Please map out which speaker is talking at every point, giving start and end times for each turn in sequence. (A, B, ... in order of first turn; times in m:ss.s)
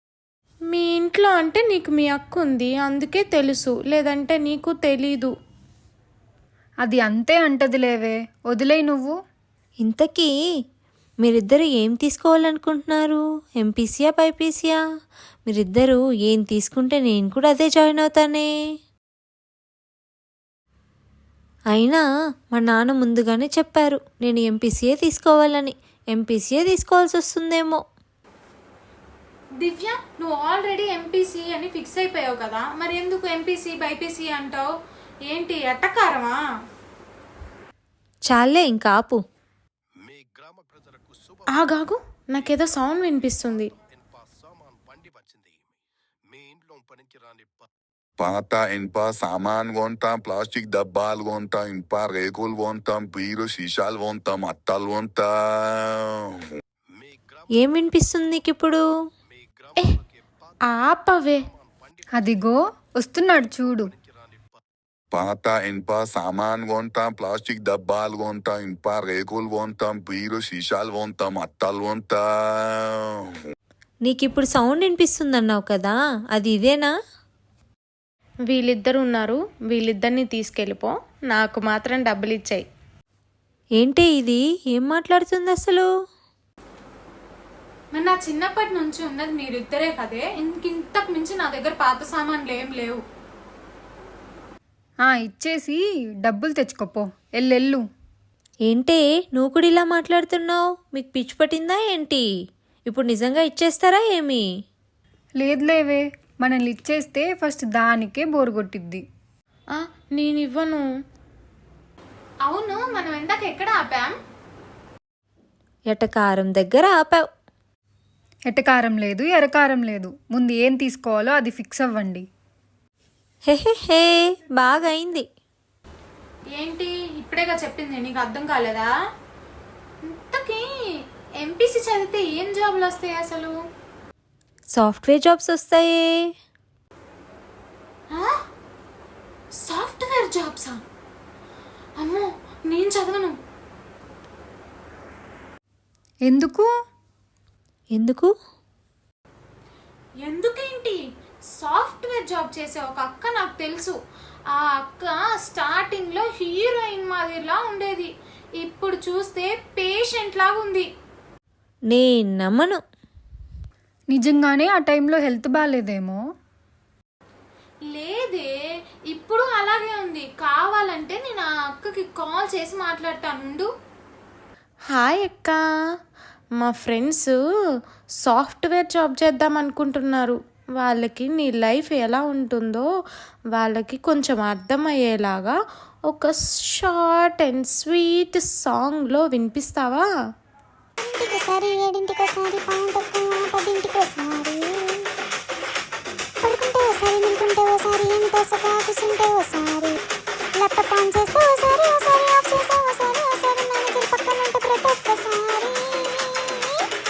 0:00.7-0:05.3 A
0:06.8-0:09.1 B
0:09.8-0:10.3 C
0:11.2-0:14.8 C
0:15.5-0:18.5 C
0:21.7-0:27.8 C
0:29.6-0:34.7 D
0:35.3-0:36.4 D
0:38.3-0:39.2 C
0:41.5-0:43.7 A
0:48.2-0:56.4 E
0:57.5-0:58.8 C
1:00.7-1:01.4 A
1:02.2-1:03.9 B
1:05.1-1:13.3 E
1:14.0-1:16.9 C
1:18.5-1:22.6 A
1:23.8-1:25.9 C
1:27.9-1:33.0 D
1:35.0-1:37.8 B
1:38.7-1:42.3 C
1:42.9-1:44.4 C
1:45.4-1:49.0 B
1:49.7-1:50.8 A
1:52.5-1:54.1 D
1:55.9-1:57.2 C
1:58.5-2:02.2 B
2:03.5-2:05.3 C
2:06.6-2:08.9 D
2:10.1-2:10.7 D
2:11.4-2:13.5 D
2:14.7-2:16.3 C
2:19.6-2:20.8 D
2:22.0-2:23.3 D
2:26.2-2:26.7 B
2:27.9-2:28.3 C
2:30.2-2:31.0 D
2:31.5-2:34.0 D
2:34.5-2:38.1 D
2:38.6-2:40.9 D
2:41.9-2:42.8 C
2:44.1-2:46.2 B
2:47.9-2:48.5 D
2:49.1-2:53.7 D
2:54.9-2:55.6 A
2:56.6-2:57.3 A
2:58.2-3:02.9 A
3:03.5-3:05.6 A
3:06.1-3:10.0 A
3:11.0-3:15.1 F
3:16.4-3:20.0 F
3:20.5-3:26.9 F